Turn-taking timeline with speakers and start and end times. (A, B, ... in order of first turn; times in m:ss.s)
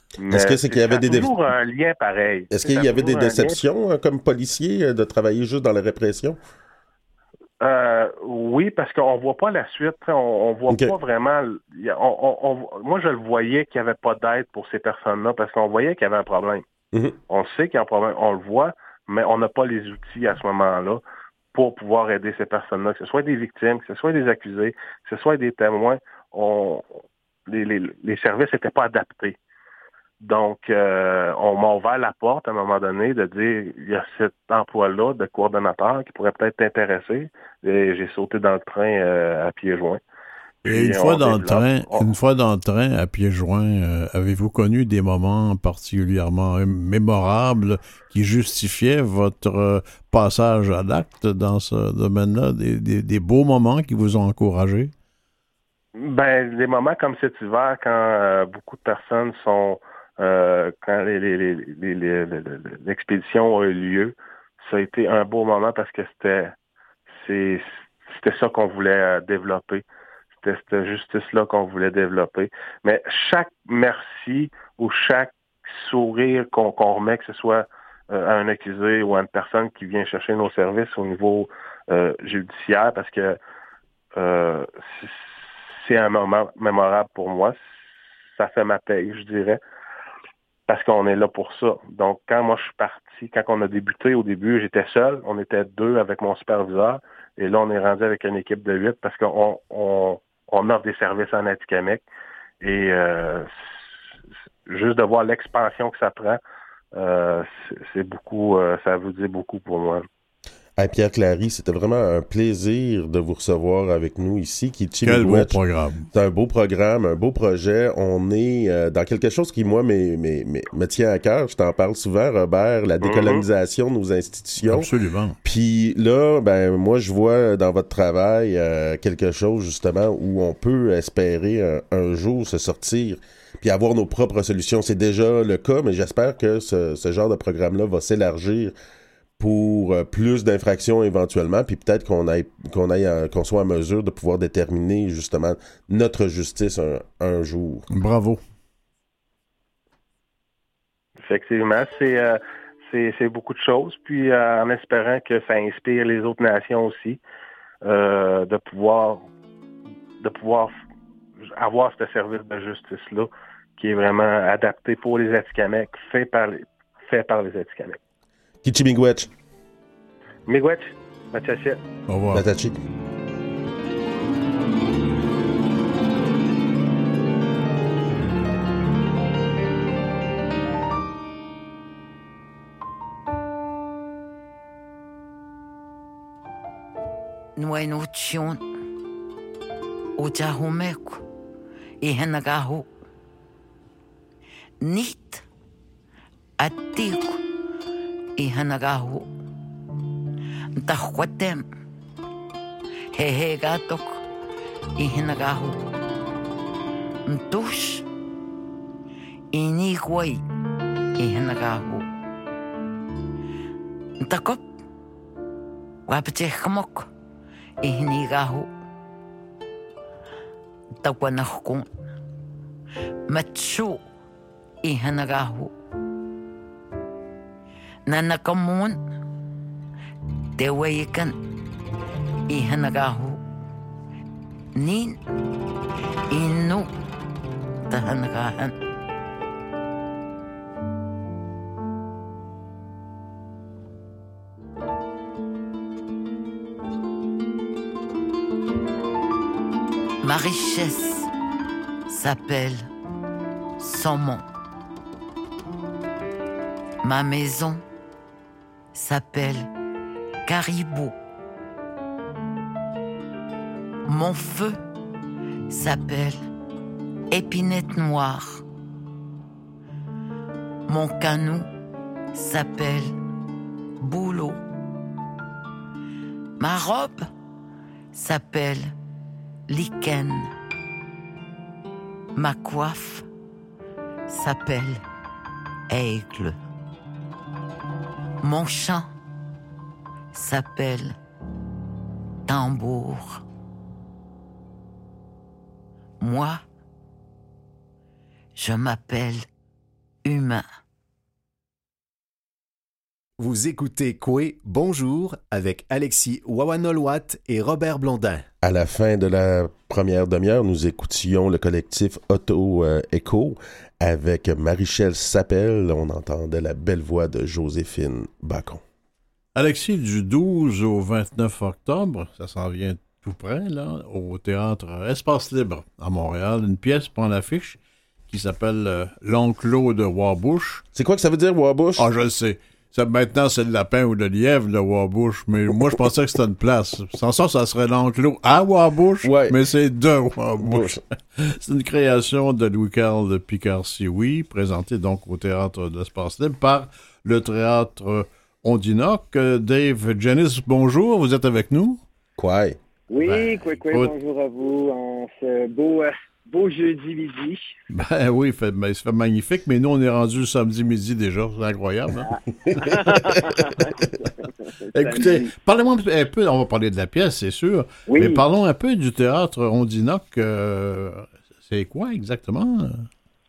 0:00.2-0:03.6 A
0:00.3-0:01.3 B
0:02.5-0:06.4 B
0:07.6-0:16.6 A
0:17.3-0:21.0 A
0:21.5-0:29.4 A
0:30.2-0:40.0 A
0:40.6-0:42.1 A
0:40.7-0:54.9 C
0:56.0-1:06.5 A
1:07.1-1:09.8 A
1:10.4-1:23.4 A
1:24.2-1:27.6 A
1:28.4-1:29.6 A
1:30.7-1:42.0 A
1:42.6-1:43.5 A
1:44.7-1:46.4 A
1:46.9-1:50.1 A
1:50.8-1:55.6 B
1:55.0-1:56.1 C
1:56.1-2:04.9 B
2:03.0-2:03.4 A
2:04.6-2:05.4 C
2:05.4-2:18.7 B
2:19.4-2:27.9 B
2:27.9-2:28.4 C
2:31.2-2:37.2 A
2:37.8-2:39.3 A
2:40.2-2:40.8 A
2:41.5-2:48.0 A
2:48.6-2:49.3 B
2:50.5-2:51.8 A
2:52.1-2:52.4 C
2:52.3-2:52.8 B
3:07.6-3:08.6 D
3:10.2-3:11.2 D
3:12.0-3:12.9 D
3:14.8-3:15.4 D
3:16.6-3:17.4 D
3:18.4-3:19.3 D
3:20.8-3:21.6 D
3:23.1-3:24.2 D
3:25.0-3:25.8 D
3:27.3-3:28.0 D
3:29.5-3:30.4 D
3:31.2-3:32.1 D
3:34.2-3:34.6 D
3:36.1-3:37.1 D
3:37.8-3:38.7 D
3:41.0-3:41.9 D
3:43.3-3:44.0 D
3:44.8-3:45.7 D
3:48.1-3:49.0 D
3:50.6-3:51.4 D
3:52.5-3:53.4 D
3:54.8-3:55.2 D
3:56.3-3:56.9 D
3:57.9-3:58.8 D
4:10.2-4:11.3 D
4:12.1-4:12.9 D
4:13.8-4:14.4 D
4:17.0-4:17.8 D
4:18.9-4:19.7 D
4:20.5-4:21.2 D
4:24.1-4:24.8 D
4:25.7-4:26.4 D
4:27.3-4:28.6 D
4:30.9-4:31.7 D
4:32.3-4:33.2 D
4:34.0-4:34.6 D
4:36.6-4:37.3 D
4:38.1-4:38.9 D
4:39.7-4:40.5 D
4:42.4-4:43.3 D
4:44.3-4:45.0 D
4:45.9-4:46.6 D
4:48.4-4:49.1 D
4:50.3-4:51.2 D
4:52.5-4:53.4 D
4:56.2-4:56.6 D
4:58.6-4:59.4 D
5:00.2-5:00.6 D
5:03.4-5:08.4 E
5:08.6-5:18.8 B
5:19.6-5:30.8 C
5:30.9-5:32.1 B
5:32.0-5:52.0 C
5:39.2-5:39.6 B
5:40.6-5:41.0 B
5:52.4-5:52.8 B
5:53.1-5:57.8 F
5:53.2-5:54.1 C
5:57.9-6:03.8 C
6:02.3-6:05.5 F
6:04.9-6:13.1 C
6:08.1-6:08.4 F